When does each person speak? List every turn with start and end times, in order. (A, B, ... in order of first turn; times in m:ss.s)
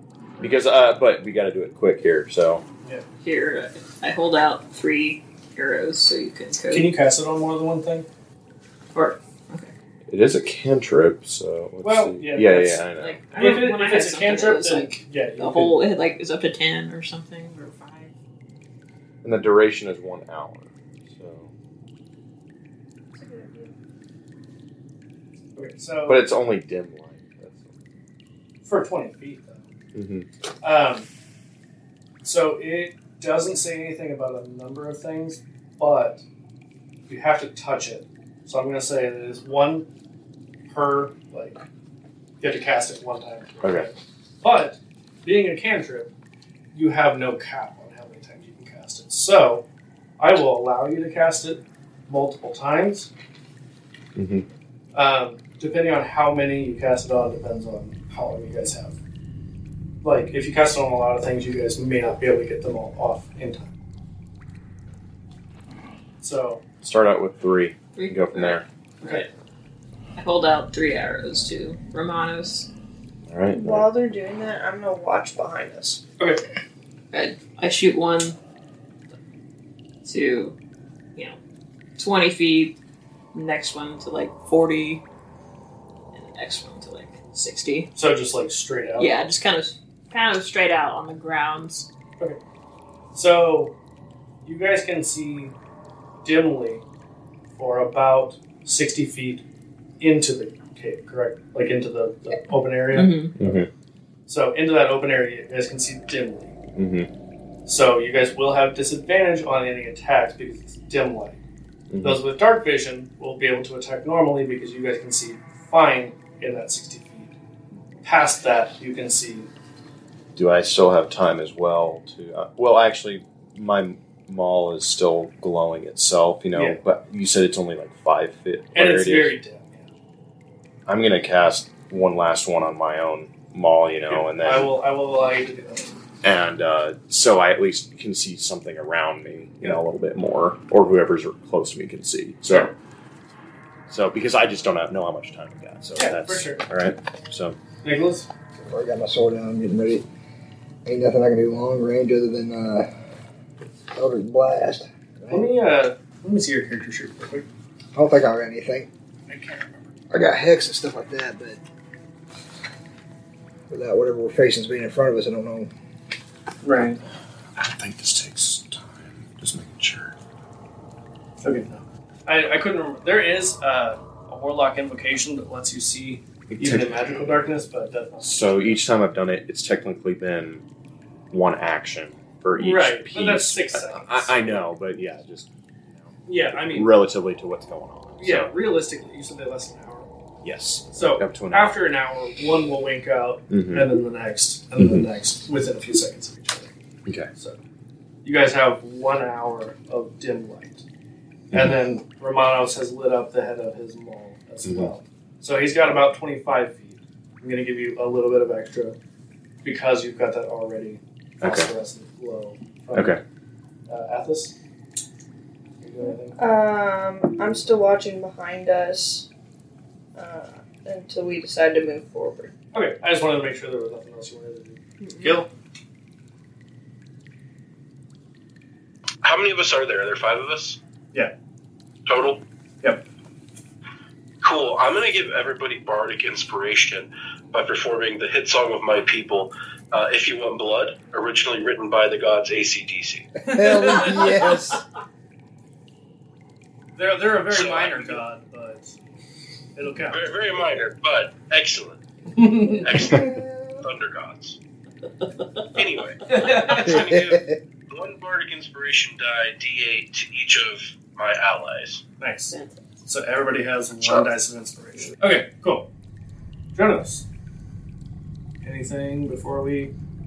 0:00.4-0:02.6 A
0:03.2-0:06.9 B
0:06.7-0:08.1 C
0:08.9-0:09.7 B
0:10.1-0:13.3 A
0:11.8-0:12.8 C
0:13.0-0:18.1 B
0:13.4-0:15.8 C
0:19.2-0:21.5 A
0:23.1-0:23.7 D
0:25.5-0:26.2 C
0:26.0-0:27.7 A
0:28.6-0:29.7 C
0:29.9-0:30.2 A
0:30.6-0:31.1 C
0:32.2-0:36.2 C
0:37.1-0:39.8 C
0:40.7-0:41.6 C
0:42.4-0:46.1 C
0:43.6-0:43.9 A
0:46.7-0:49.6 C
0:50.2-0:53.1 C
0:54.2-0:54.4 A
0:54.9-0:59.0 C
1:00.0-1:03.7 C
1:06.2-1:06.6 C
1:06.8-1:08.6 A
1:08.0-1:09.3 B
1:10.2-1:12.7 B
1:13.3-1:13.9 A
1:13.5-1:16.0 D
1:17.1-1:18.4 B
1:20.0-1:20.6 B
1:22.0-1:22.7 B
1:23.3-1:25.0 B
1:26.1-1:27.9 B
1:27.9-1:29.1 C
1:29.0-1:31.9 B
1:33.1-1:33.7 C
1:34.4-1:35.5 C
1:36.2-1:36.8 C
1:37.6-1:39.4 C
1:40.0-1:43.6 C
1:42.9-1:43.4 B
1:43.4-1:43.7 A
1:44.3-1:46.5 C
1:46.8-1:47.1 A
1:47.6-1:51.4 C
1:51.9-1:52.2 A
1:52.0-1:57.3 C
1:58.0-1:59.5 C
2:00.4-2:09.3 A
2:06.5-2:06.8 C
2:08.7-2:09.9 C
2:10.9-2:14.7 A
2:14.1-2:15.9 C
2:16.2-2:22.7 A
2:23.9-2:27.6 A
2:26.0-2:26.6 C
2:27.8-2:28.3 C
2:28.6-2:30.0 E
2:30.8-2:32.9 E
2:33.9-2:35.5 E
2:35.3-2:37.5 C
2:37.9-2:38.9 E
2:39.3-2:39.9 C
2:40.1-2:41.6 E
2:43.7-2:45.7 E
2:46.6-2:47.0 C
2:47.5-2:50.2 A
2:51.4-2:58.8 C
2:56.5-2:57.3 A
2:58.2-3:00.6 A
3:01.3-3:08.5 A
3:02.6-3:04.7 C
3:06.2-3:06.9 C
3:08.2-3:10.1 C
3:10.4-3:11.8 A
3:10.9-3:16.7 C
3:13.5-3:13.9 A
3:14.8-3:15.0 A
3:18.2-3:20.8 C
3:21.5-3:29.0 C
3:21.5-3:21.8 A
3:24.6-3:24.9 A
3:29.6-3:33.2 C
3:31.4-3:31.7 A
3:32.9-3:33.2 A
3:33.9-3:34.5 C
3:35.8-3:36.4 C
3:36.4-3:39.3 D
3:40.1-3:42.5 D
3:42.7-3:45.5 C
3:45.0-3:45.4 B
3:49.2-3:50.8 F
3:52.0-3:52.4 F
3:54.4-4:03.3 F
4:03.5-4:04.8 E
4:03.6-4:04.2 C
4:04.0-4:04.5 B
4:07.0-4:09.0 C
4:07.5-4:08.2 F
4:09.7-4:10.2 C
4:10.1-4:12.0 F
4:12.3-4:13.0 C
4:12.8-4:13.2 F
4:13.1-4:13.8 D
4:13.8-4:14.6 F
4:15.7-4:22.0 F
4:16.2-4:17.0 C
4:16.8-4:17.6 E
4:22.2-4:22.5 C
4:22.5-4:22.9 B
4:23.0-4:25.9 C
4:26.7-4:27.2 C
4:28.6-4:29.9 C